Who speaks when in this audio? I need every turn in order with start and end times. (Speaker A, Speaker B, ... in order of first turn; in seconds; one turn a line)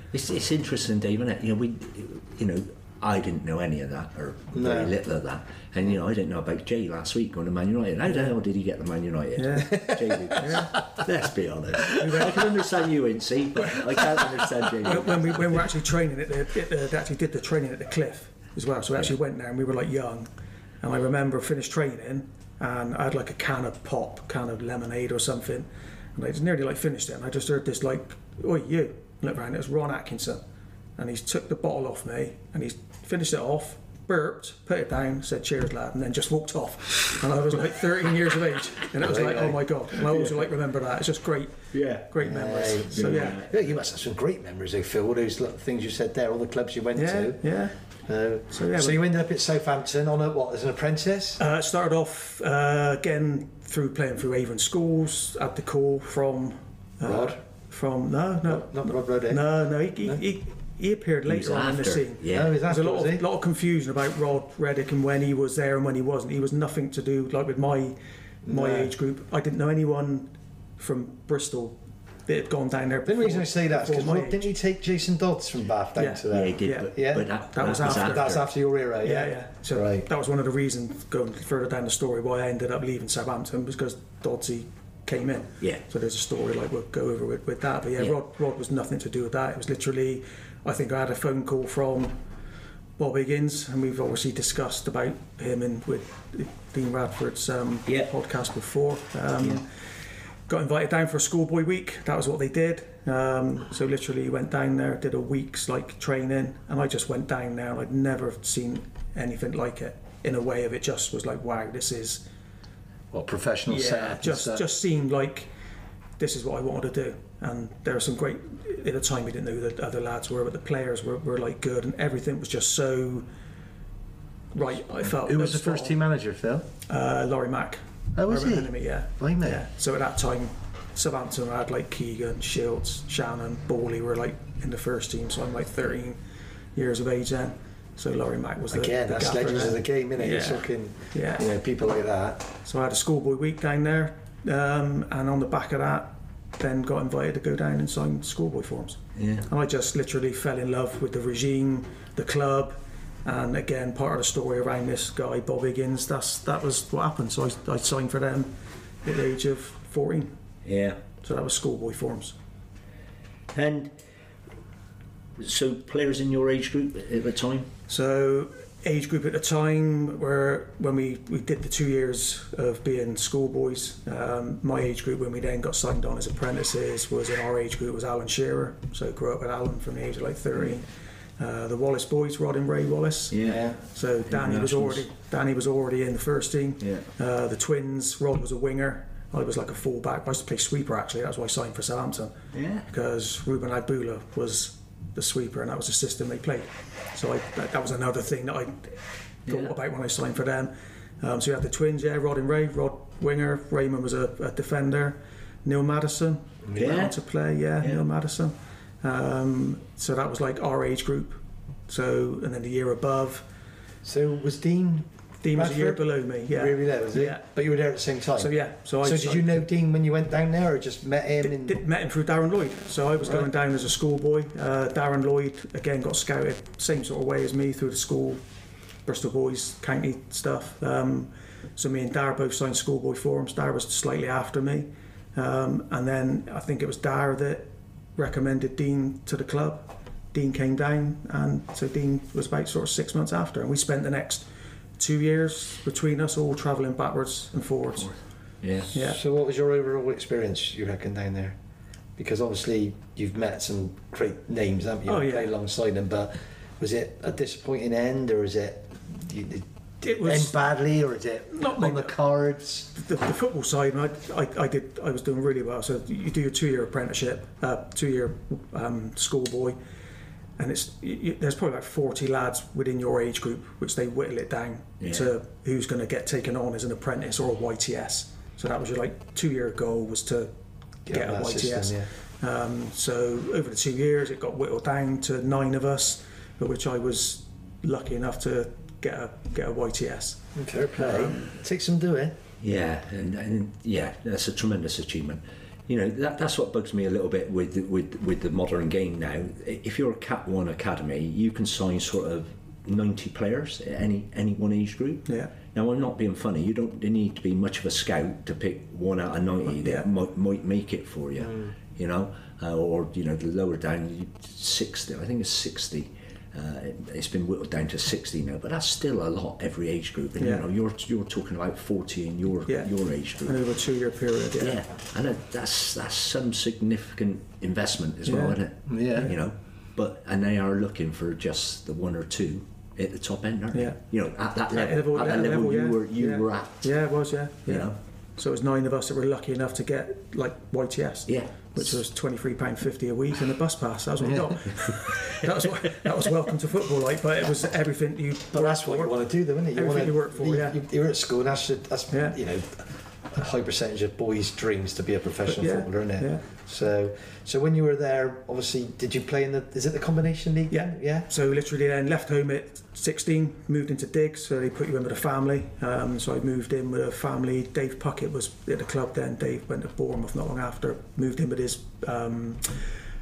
Speaker A: 0.1-15.6
Speaker B: 4.5-4.9
Speaker C: 9.4-10.8
Speaker B: 9.7-10.6
Speaker C: 11.9-12.6
Speaker C: 13.6-14.1
Speaker C: 14.8-20.3
Speaker C: 20.8-30.4
Speaker C: 31.0-43.4
Speaker B: 39.0-39.6
Speaker A: 40.0-40.4
Speaker A: 41.7-42.1
Speaker B: 42.2-47.4
Speaker A: 42.9-43.5
Speaker C: 46.9-47.7
Speaker B: 48.1-51.4
Speaker C: 48.5-49.0
Speaker C: 51.4-67.9
Speaker B: 57.0-57.4
Speaker B: 58.5-59.4
Speaker A: 61.3-62.6
Speaker B: 62.3-63.2
Speaker B: 68.4-68.9
Speaker C: 68.5-71.8
Speaker C: 72.3-74.5
Speaker B: 73.1-80.1
Speaker C: 76.0-76.9
Speaker A: 76.3-78.4
Speaker C: 77.5-78.4
Speaker C: 79.0-92.1
Speaker C: 93.0-99.6
Speaker C: 100.5-112.2
Speaker B: 113.1-114.6
Speaker C: 113.7-115.5
Speaker C: 116.2-123.2
Speaker C: 124.5-126.0
Speaker B: 125.0-126.7
Speaker C: 126.9-136.2
Speaker B: 128.2-129.6
Speaker C: 136.8-141.4
Speaker B: 138.7-142.4
Speaker C: 142.6-158.5
Speaker A: 149.2-149.5
Speaker C: 159.0-160.3
Speaker A: 160.6-161.0
Speaker C: 161.2-162.3
Speaker A: 163.5-163.9
Speaker A: 165.4-167.7
Speaker C: 167.9-180.9
Speaker C: 181.4-183.4
Speaker A: 183.3-185.1
Speaker B: 183.4-183.8
Speaker C: 183.9-192.3
Speaker A: 186.8-187.1
Speaker A: 192.5-192.9
Speaker C: 192.9-213.4
Speaker B: 206.7-206.9
Speaker A: 206.8-207.1
Speaker B: 214.0-221.8
Speaker C: 215.4-217.4
Speaker C: 218.4-219.6
Speaker C: 221.4-228.4
Speaker C: 229.1-244.5
Speaker C: 245.0-248.2
Speaker A: 248.6-248.9
Speaker C: 248.9-249.2
Speaker B: 248.9-251.6
Speaker B: 252.2-262.9
Speaker C: 255.1-255.5
Speaker C: 260.0-260.6
Speaker C: 261.5-262.1
Speaker C: 262.9-269.8
Speaker C: 270.6-280.5
Speaker A: 275.0-275.3
Speaker B: 281.1-282.1
Speaker C: 281.1-290.4
Speaker B: 290.6-292.4
Speaker C: 291.0-291.5
Speaker A: 292.6-323.6
Speaker C: 305.3-305.5
Speaker C: 309.7-310.1
Speaker B: 311.4-311.7
Speaker C: 320.4-320.6
Speaker C: 323.4-324.8
Speaker A: 324.6-336.9
Speaker C: 328.2-328.6
Speaker B: 328.9-329.3
Speaker C: 334.7-349.1
Speaker A: 337.7-337.9
Speaker A: 341.3-342.0
Speaker B: 348.5-361.3
Speaker C: 349.7-350.8
Speaker C: 352.1-352.4
Speaker C: 355.5-356.4
Speaker C: 360.7-372.8